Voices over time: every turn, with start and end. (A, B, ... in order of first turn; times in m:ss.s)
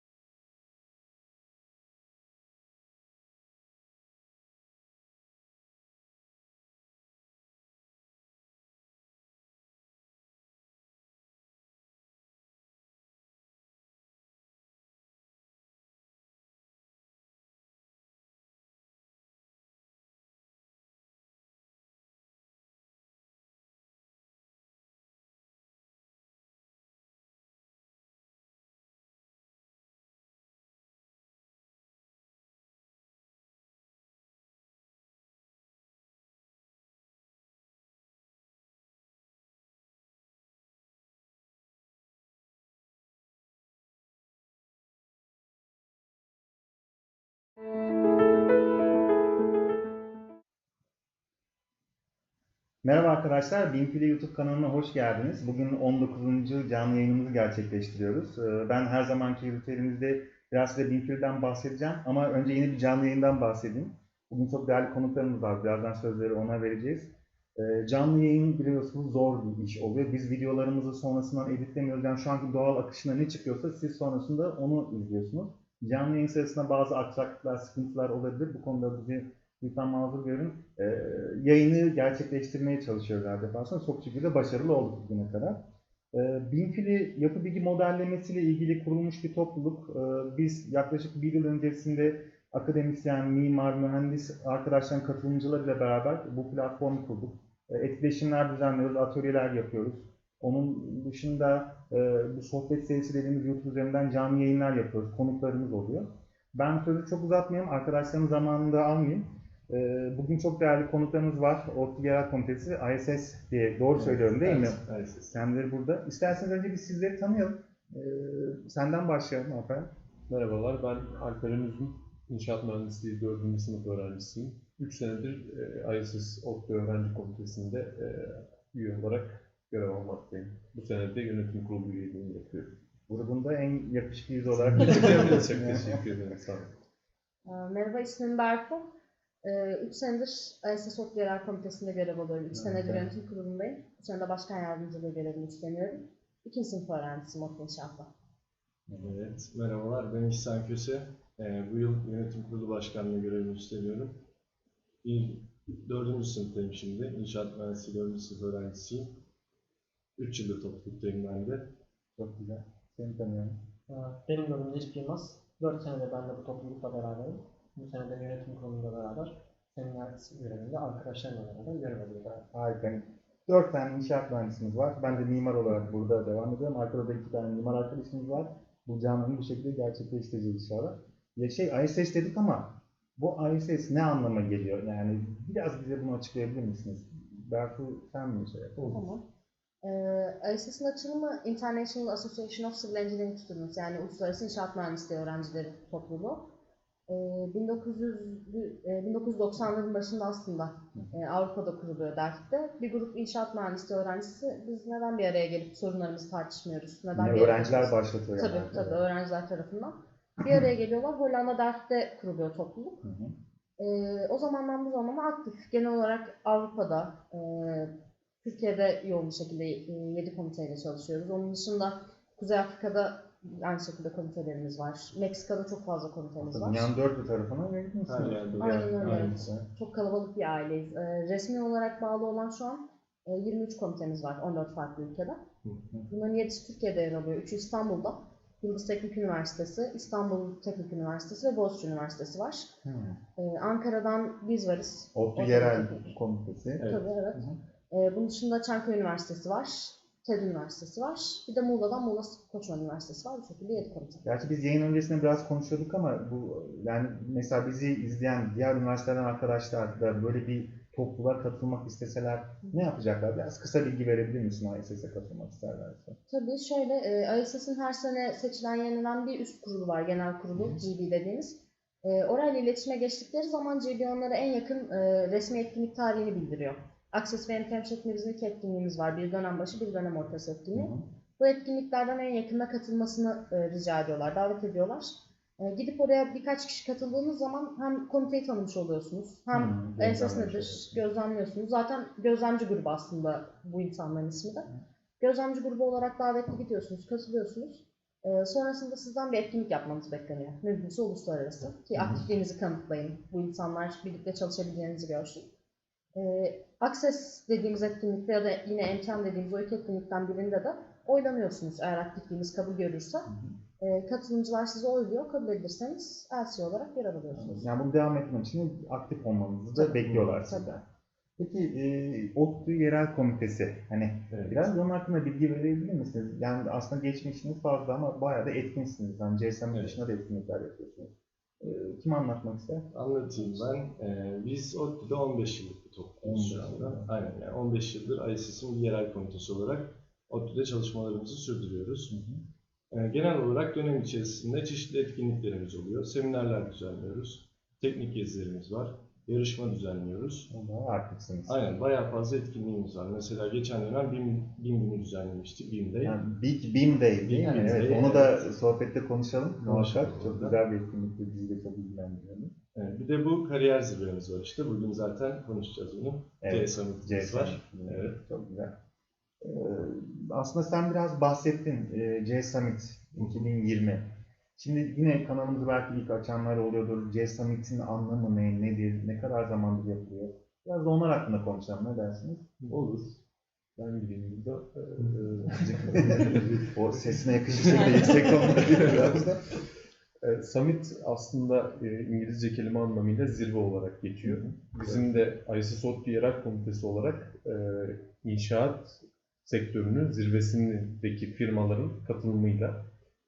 0:52.8-1:25.6 A
1:26.1-1:59.9 A
1:53.9-1:55.3 B
2:00.3-2:12.8 C
2:13.1-2:16.1 A
2:14.6-2:16.7 C
2:17.4-2:18.9 D
2:19.4-2:28.1 D
2:22.5-2:23.0 A
2:28.9-2:29.1 A
2:29.0-2:34.2 B
2:35.0-2:39.1 B
2:40.2-2:41.7 B
2:42.2-2:43.6 A
2:43.9-2:52.5 E
2:52.5-3:08.9 A
3:08.9-3:09.2 D
3:09.8-3:16.5 D
3:17.1-3:33.0 D
3:27.1-3:29.0 A
3:33.0-3:33.3 A
3:33.8-3:46.9 D
3:46.4-3:49.6 A
3:48.1-3:49.4 B
3:48.6-3:55.4 D
3:56.1-4:02.7 D
4:02.8-4:03.2 A
4:03.4-4:06.1 D
4:05.1-4:06.8 A
4:06.8-4:07.1 B
4:06.8-4:14.2 D
4:14.2-4:26.2 A
4:26.3-5:05.5 D
4:30.5-4:30.8 A
4:40.7-4:41.0 A
4:49.5-4:51.0 A
5:02.0-5:02.2 A
5:06.1-5:17.7 D
5:13.3-5:13.5 A
5:17.3-5:20.8 A
5:20.0-5:20.4 B
5:21.4-5:32.9 A
5:24.3-5:24.7 B
5:29.7-5:30.0 B
5:32.9-5:42.2 B
5:36.2-5:37.1 A
5:42.1-5:42.4 A
5:42.9-5:50.5 B
5:50.5-5:51.6 A
5:51.5-5:56.2 B
5:56.0-6:02.5 A
5:57.2-5:58.4 B
5:59.6-6:00.6 B
6:02.7-6:08.2 B
6:06.4-6:08.8 A
6:09.4-6:22.6 A
6:22.6-6:23.0 C
6:22.7-6:23.0 B
6:23.8-6:26.7 C
6:25.4-6:29.5 A
6:27.8-6:29.0 B
6:30.2-6:42.8 C
6:34.2-6:35.2 A